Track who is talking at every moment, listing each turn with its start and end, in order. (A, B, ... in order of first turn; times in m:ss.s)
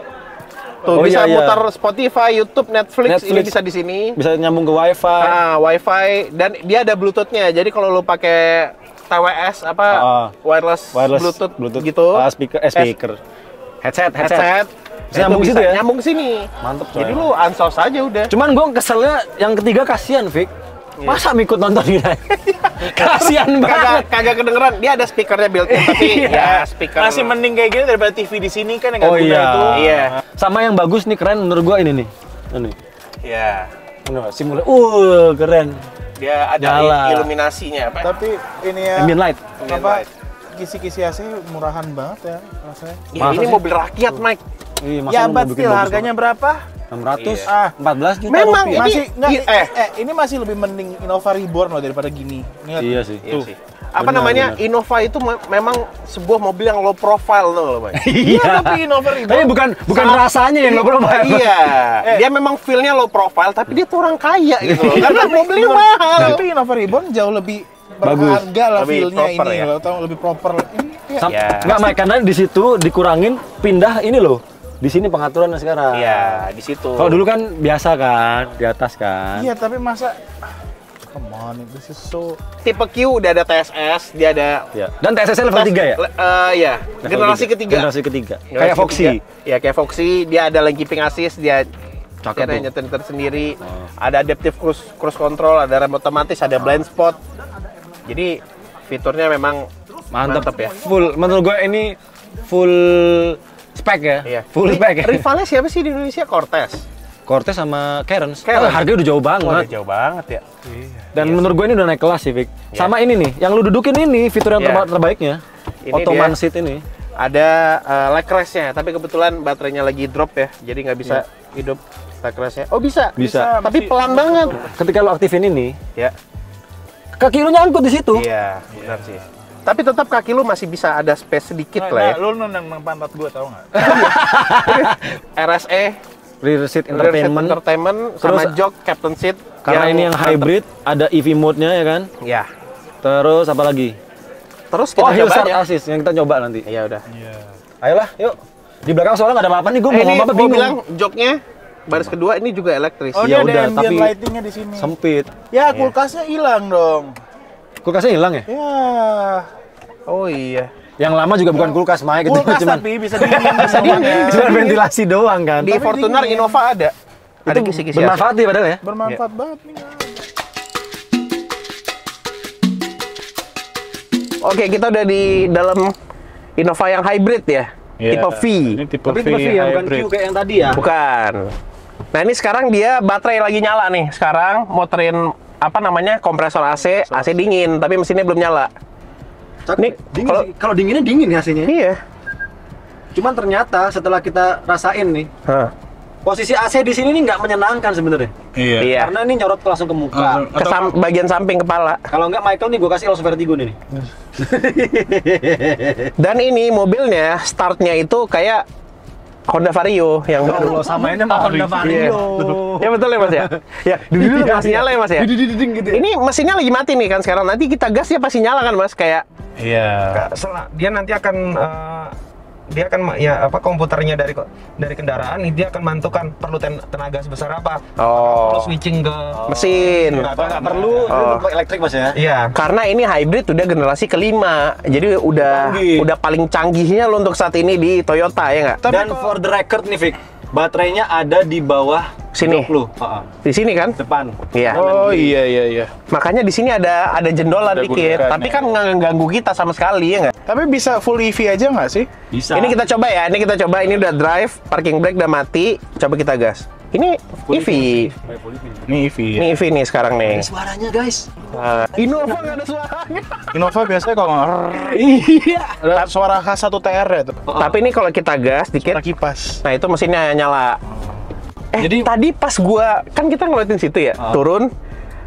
0:00.8-0:04.2 A
0:00.9-0:01.6 B
0:03.1-0:03.6 B
0:04.2-0:05.4 B
0:05.2-0:12.2 A
0:09.9-0:10.3 B
0:10.9-0:13.2 B
0:13.8-0:14.5 B
0:14.2-0:18.3 A
0:15.1-0:15.8 B
0:16.6-0:17.3 B
0:18.3-0:20.5 B
0:21.1-0:24.1 B
0:22.8-0:27.4 A
0:25.7-0:30.1 C
0:25.8-0:26.3 B
0:29.0-0:32.8 B
0:29.7-0:30.1 A
0:33.2-0:33.7 A
0:34.1-0:35.8 B
0:36.2-0:38.1 A
0:36.6-0:37.3 B
0:38.0-0:39.1 C
0:39.0-0:39.5 B
0:39.6-0:40.1 A
0:39.7-0:40.0 C
0:40.6-0:43.4 C
0:43.1-0:44.4 A
0:43.2-0:43.6 B
0:44.8-0:46.1 B
0:45.1-0:46.6 C
0:46.9-0:48.9 B
0:47.2-0:47.5 A
0:47.5-0:47.7 C
0:48.3-0:49.7 A
0:48.7-0:53.5 C
0:52.8-0:53.2 B
0:53.3-0:58.0 A
0:54.0-0:54.6 B
0:58.0-1:02.2 B
0:58.1-0:59.6 C
0:59.9-1:06.4 A
1:04.6-1:05.3 B
1:05.1-1:11.9 C
1:08.0-1:08.4 B
1:08.8-1:09.7 A
1:11.2-1:16.4 B
1:11.3-1:11.8 A
1:15.9-1:17.2 A
1:17.0-1:19.5 B
1:19.4-1:20.2 C
1:21.0-1:22.4 C
1:22.6-1:24.7 A
1:24.7-1:26.0 B
1:25.5-1:27.9 A
1:27.0-1:29.2 B
1:28.5-1:31.7 A
1:32.2-1:32.7 B
1:32.4-1:37.2 A
1:33.6-1:33.9 B
1:38.1-1:39.7 A
1:40.1-1:45.3 B
1:40.2-1:40.8 A
1:40.3-1:41.4 C
1:44.3-1:46.8 A
1:47.3-1:49.7 B
1:48.4-1:48.8 A
1:49.4-1:51.5 A
1:51.1-1:56.8 B
1:54.6-1:54.8 A
1:55.9-1:56.4 A
1:57.2-2:04.6 A
2:03.2-2:03.5 B
2:03.2-2:04.8 C
2:04.7-2:05.8 B
2:07.2-2:08.3 B
2:08.1-2:12.2 A
2:08.7-2:09.2 C
2:11.8-2:14.0 C
2:13.8-2:15.0 B
2:13.8-2:16.0 A
2:16.4-2:17.6 B
2:16.9-2:20.5 A
2:18.2-2:18.6 B
2:19.6-2:22.1 B
2:22.2-2:22.5 A
2:23.0-2:24.0 B
2:24.7-2:25.6 A
2:25.0-2:26.6 B
2:26.7-2:27.0 A
2:27.1-2:27.6 C
2:27.8-2:30.8 B
2:29.9-2:33.2 A
2:33.1-2:34.9 C
2:33.2-2:34.2 B
2:34.8-2:35.3 B
2:35.5-2:37.2 C
2:37.8-2:38.5 B
2:38.5-2:39.5 C
2:40.1-2:40.7 A
2:41.0-2:45.8 B
2:41.5-2:44.8 C
2:43.6-2:44.8 A
2:45.6-2:46.9 A
2:45.6-2:46.6 C
2:47.5-2:48.2 A
2:47.5-2:48.8 B
2:48.8-2:50.2 C
2:54.4-2:55.9 A
2:56.6-2:58.8 A
2:58.0-3:00.1 C
2:59.0-3:00.8 B
3:00.8-3:01.5 A
3:02.1-3:08.7 A
3:06.9-3:07.5 C
3:09.7-3:11.7 B
3:09.8-3:10.5 A
3:11.7-3:12.0 A
3:13.1-3:15.3 B
3:15.5-3:15.7 A
3:16.2-3:18.3 B
3:18.6-3:18.9 C
3:18.8-3:19.1 A
3:18.9-3:20.5 B
3:20.1-3:20.9 C
3:20.6-3:22.0 A
3:22.1-3:23.8 B
3:24.4-3:26.1 B
3:26.2-3:28.6 A
3:29.5-3:30.9 A
3:30.4-3:36.0 B
3:30.5-3:32.2 C
3:31.8-3:35.3 A
3:35.9-3:39.2 A
3:39.6-3:40.2 C
3:40.1-3:42.1 D
3:42.7-3:49.4 D
3:48.0-3:48.7 A
3:49.3-3:52.2 B
3:49.5-3:51.4 A
3:49.8-3:51.2 C
3:52.2-3:52.6 D
3:52.6-3:58.8 A
3:55.4-3:56.1 B
3:58.8-3:59.3 C
3:58.9-4:03.3 B
4:02.4-4:02.7 A
4:03.4-4:04.0 A
4:04.0-4:05.4 B
4:04.5-4:04.8 A
4:04.7-4:05.9 C
4:06.1-4:10.3 A
4:07.7-4:08.6 C
4:10.5-4:12.1 C
4:12.3-4:12.8 B
4:12.5-4:18.1 A
4:17.5-4:18.9 B
4:18.9-4:19.6 C
4:19.4-4:20.5 A
4:20.2-4:21.4 B
4:21.5-4:23.5 A
4:22.0-4:22.6 B
4:23.5-4:25.1 C
4:24.8-4:25.8 B
4:25.8-4:27.4 C
4:27.5-4:27.7 B
4:27.6-4:29.0 A
4:28.8-4:29.6 C
4:29.6-4:30.8 A
4:31.7-4:34.7 A
4:31.8-4:32.1 B